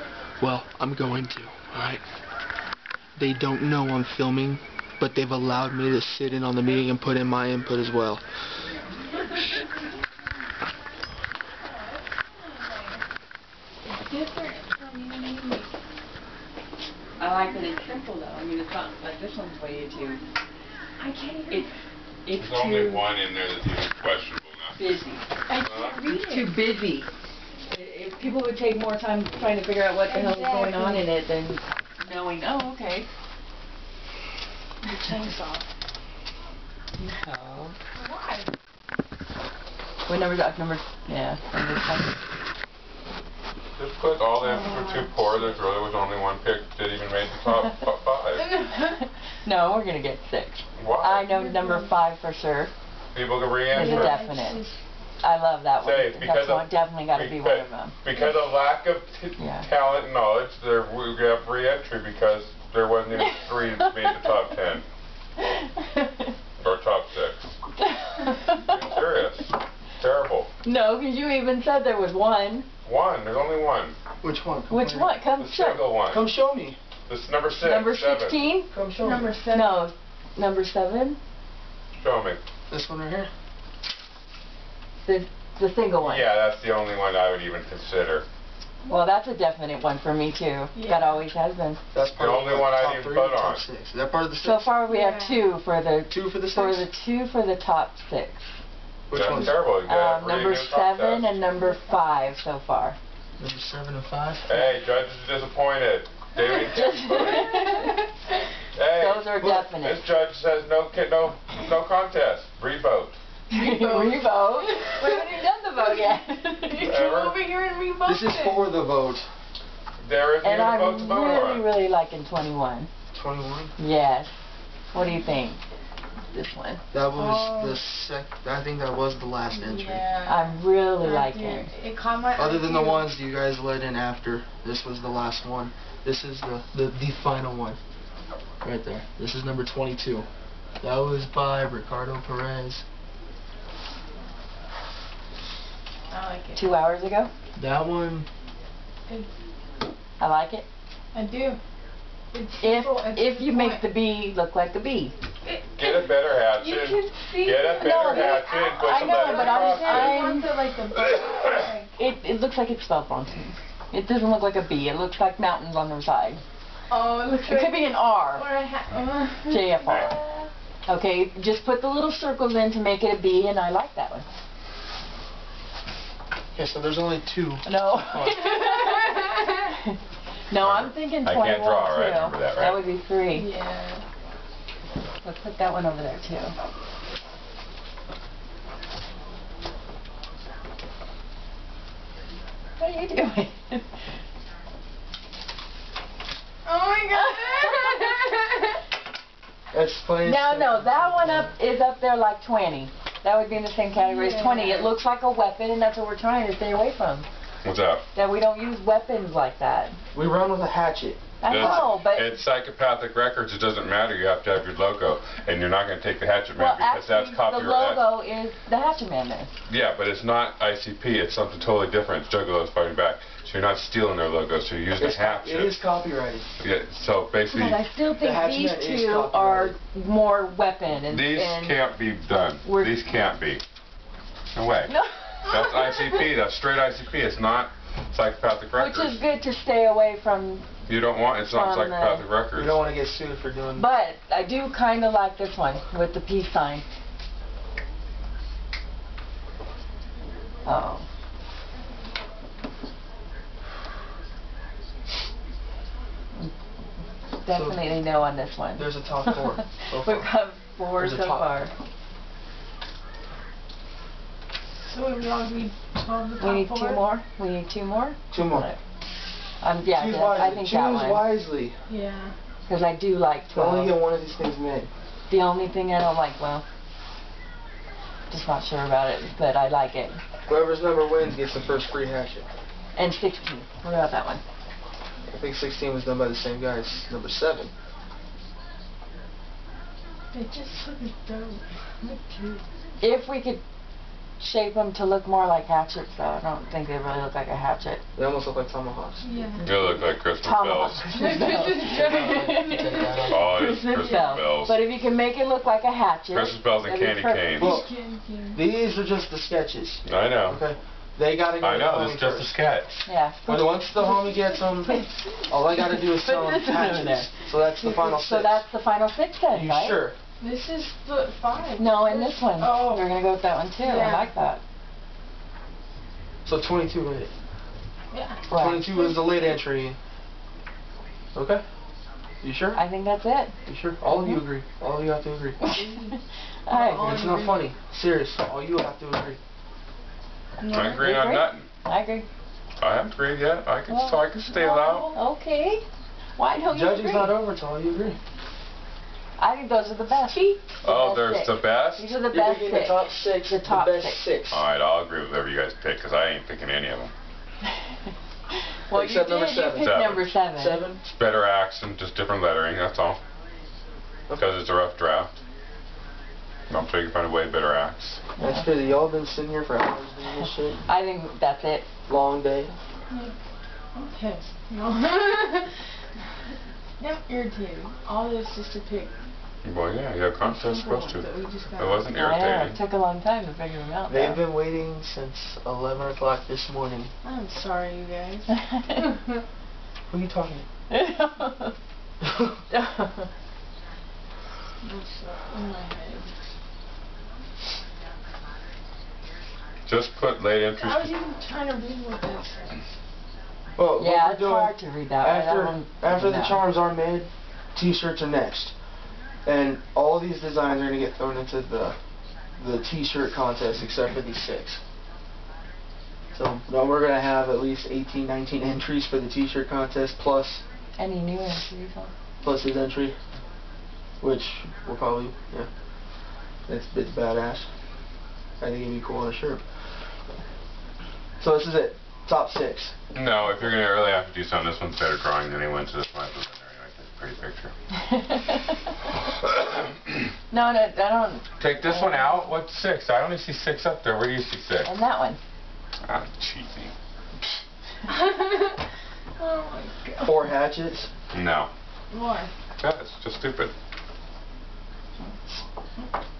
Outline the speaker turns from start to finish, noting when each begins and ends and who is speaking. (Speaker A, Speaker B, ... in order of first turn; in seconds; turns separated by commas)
Speaker A: 0.4-2.0, Speaker A: 3.2-8.2, Speaker B: 11.6-13.0, Speaker B: 13.8-15.7, Speaker C: 17.2-20.2, Speaker B: 21.0-21.7, Speaker C: 22.3-23.0, Speaker D: 22.4-24.8, Speaker C: 24.8-25.2, Speaker B: 25.5-26.5, Speaker D: 25.6-26.0, Speaker C: 26.0-27.1, Speaker C: 27.7-33.1, Speaker B: 30.1-31.1, Speaker B: 34.8-35.7, Speaker A: 37.1-37.8, Speaker B: 38.0-38.5, Speaker C: 40.1-42.2, Speaker D: 43.8-48.5, Speaker B: 44.4-45.6, Speaker B: 48.3-48.9, Speaker C: 48.8-52.7, Speaker D: 50.8-51.2, Speaker B: 51.2-51.9, Speaker D: 53.1-54.2, Speaker C: 53.7-54.6, Speaker B: 53.7-54.8, Speaker C: 55.2-58.0, Speaker D: 55.8-64.8, Speaker C: 59.4-59.7, Speaker C: 63.2-64.2, Speaker C: 65.4-66.3, Speaker D: 66.6-67.5, Speaker C: 67.8-68.8, Speaker D: 68.5-70.5, Speaker C: 70.6-72.7, Speaker D: 72.8-74.0, Speaker A: 74.2-75.1, Speaker C: 74.7-75.9, Speaker D: 75.4-76.2, Speaker A: 76.1-76.8, Speaker D: 77.1-78.4, Speaker C: 77.6-78.7, Speaker A: 78.7-79.3, Speaker B: 79.0-79.9, Speaker C: 79.5-81.2, Speaker D: 82.0-82.4, Speaker A: 82.7-83.3, Speaker C: 85.0-86.3, Speaker D: 86.0-88.3, Speaker C: 88.9-91.8, Speaker B: 90.7-91.2, Speaker A: 91.9-94.7, Speaker D: 92.0-93.6, Speaker C: 94.4-98.4, Speaker B: 94.9-95.5, Speaker A: 96.1-96.9, Speaker A: 99.1-99.6, Speaker D: 99.1-101.4, Speaker C: 99.8-103.0, Speaker A: 103.4-104.5, Speaker D: 104.5-107.6, Speaker C: 106.5-108.0, Speaker B: 107.1-108.1, Speaker D: 108.8-113.1, Speaker C: 108.9-110.0, Speaker B: 113.5-116.1, Speaker C: 113.5-116.9, Speaker B: 116.7-118.7, Speaker D: 116.8-117.4, Speaker A: 118.0-119.3, Speaker D: 120.0-121.7, Speaker C: 120.4-122.9, Speaker A: 123.1-123.7, Speaker C: 123.8-124.3, Speaker C: 124.9-125.6, Speaker C: 126.3-126.8, Speaker A: 126.9-130.1, Speaker B: 127.2-127.8, Speaker B: 129.5-133.1, Speaker C: 130.3-131.7, Speaker A: 132.4-137.8, Speaker A: 138.6-140.3, Speaker A: 140.8-142.8, Speaker B: 146.1-146.7, Speaker C: 146.6-147.3, Speaker A: 147.6-148.3, Speaker C: 150.2-150.7, Speaker B: 151.1-151.6, Speaker B: 152.3-153.9, Speaker C: 152.6-155.1, Speaker B: 155.4-161.9, Speaker D: 155.8-160.3, Speaker C: 157.8-160.5, Speaker D: 161.2-161.6, Speaker C: 161.9-166.4, Speaker B: 166.9-170.0, Speaker C: 167.4-168.4, Speaker C: 169.5-170.2, Speaker D: 169.8-170.1, Speaker C: 170.9-174.3, Speaker A: 176.6-178.5, Speaker C: 177.7-180.0, Speaker B: 178.4-179.7, Speaker C: 180.5-183.5, Speaker D: 180.6-182.8, Speaker B: 183.3-184.0, Speaker C: 185.2-186.5, Speaker C: 192.8-193.8, Speaker B: 196.7-198.6, Speaker C: 197.2-198.3, Speaker A: 199.7-201.5, Speaker C: 200.2-207.3, Speaker B: 203.9-204.9, Speaker D: 207.6-208.0, Speaker C: 208.1-209.9, Speaker A: 210.1-211.9, Speaker C: 211.4-212.4, Speaker D: 211.5-218.0, Speaker C: 216.6-219.5, Speaker D: 219.7-225.8, Speaker A: 225.0-226.5, Speaker D: 226.6-227.8, Speaker C: 227.4-231.8, Speaker A: 228.2-229.8, Speaker D: 231.1-233.6, Speaker C: 232.6-233.0, Speaker D: 234.5-234.9, Speaker C: 234.9-235.8, Speaker D: 235.5-239.2, Speaker C: 238.8-240.7, Speaker D: 240.9-242.8, Speaker C: 241.5-242.2, Speaker A: 242.6-243.9, Speaker C: 243.8-246.8, Speaker C: 250.7-251.1, Speaker C: 257.4-258.9, Speaker A: 257.5-257.8, Speaker A: 258.8-260.3, Speaker C: 259.9-261.7, Speaker A: 261.0-261.5, Speaker B: 264.8-267.0, Speaker C: 266.4-268.8, Speaker A: 268.3-268.7, Speaker C: 269.6-271.2, Speaker A: 269.9-271.8, Speaker B: 271.9-272.4, Speaker C: 272.7-274.0, Speaker A: 273.5-274.9, Speaker C: 275.3-276.6, Speaker C: 278.3-280.2, Speaker A: 280.5-282.5, Speaker C: 283.0-284.4, Speaker A: 285.3-287.7, Speaker B: 290.3-292.6, Speaker C: 293.0-293.6, Speaker C: 294.4-298.0, Speaker A: 298.2-299.3, Speaker B: 299.2-299.7, Speaker C: 299.6-307.6, Speaker D: 299.6-301.1, Speaker B: 301.1-304.6, Speaker A: 301.9-303.5, Speaker D: 303.2-304.8, Speaker D: 306.3-307.8, Speaker B: 307.6-308.6, Speaker A: 307.6-307.9, Speaker A: 308.5-312.5, Speaker D: 310.1-310.6, Speaker D: 311.6-313.0, Speaker C: 313.1-313.8, Speaker A: 313.5-318.6, Speaker B: 313.9-315.1, Speaker C: 315.8-320.0, Speaker A: 319.5-320.2, Speaker B: 320.4-323.1, Speaker C: 321.8-324.6, Speaker B: 323.8-324.3, Speaker A: 326.5-327.3, Speaker B: 328.1-329.6, Speaker C: 328.5-328.9, Speaker A: 328.5-330.0, Speaker A: 331.4-331.6, Speaker A: 332.4-332.8, Speaker C: 332.7-333.5, Speaker A: 333.7-335.7, Speaker C: 334.1-334.4, Speaker B: 335.6-336.2, Speaker C: 336.7-337.1, Speaker B: 336.7-337.7, Speaker A: 336.9-339.4, Speaker B: 340.6-341.2, Speaker D: 340.7-341.7, Speaker C: 340.8-342.3, Speaker D: 342.8-345.1, Speaker C: 343.9-344.2, Speaker B: 344.5-345.2, Speaker C: 345.1-345.8, Speaker C: 346.4-347.4, Speaker A: 346.7-348.2, Speaker C: 349.4-354.3, Speaker D: 350.8-352.1, Speaker A: 352.3-354.6, Speaker D: 354.5-357.1, Speaker C: 358.9-360.8, Speaker A: 358.9-361.0, Speaker D: 359.7-360.3, Speaker D: 361.0-363.2, Speaker D: 364.4-365.3, Speaker D: 366.7-368.2, Speaker C: 368.4-368.7, Speaker A: 368.4-370.8, Speaker C: 370.9-371.9, Speaker A: 372.1-372.7, Speaker B: 373.1-373.4, Speaker B: 373.9-375.7, Speaker B: 377.0-379.1, Speaker D: 379.6-382.8, Speaker B: 380.4-382.2, Speaker C: 382.1-384.4, Speaker A: 384.1-387.1, Speaker B: 387.2-389.3, Speaker A: 390.1-390.7, Speaker C: 390.9-391.7, Speaker A: 392.2-392.5, Speaker C: 392.7-393.3, Speaker B: 394.8-396.4, Speaker D: 399.9-401.1, Speaker B: 400.8-402.8, Speaker A: 403.8-408.7, Speaker C: 404.0-406.6, Speaker A: 409.5-412.0, Speaker A: 412.6-414.8, Speaker A: 416.3-420.6, Speaker C: 421.0-422.1, Speaker A: 422.4-423.1, Speaker A: 424.2-425.7, Speaker A: 426.7-427.7, Speaker A: 428.6-429.6, Speaker A: 431.4-432.9, Speaker D: 433.1-437.7, Speaker C: 438.0-438.7, Speaker C: 440.5-442.3, Speaker D: 441.6-444.9, Speaker C: 444.8-445.4, Speaker D: 446.0-446.9, Speaker B: 448.1-448.8, Speaker B: 449.4-450.4, Speaker A: 450.2-451.1, Speaker D: 451.3-451.7, Speaker B: 452.1-452.5, Speaker D: 452.8-453.7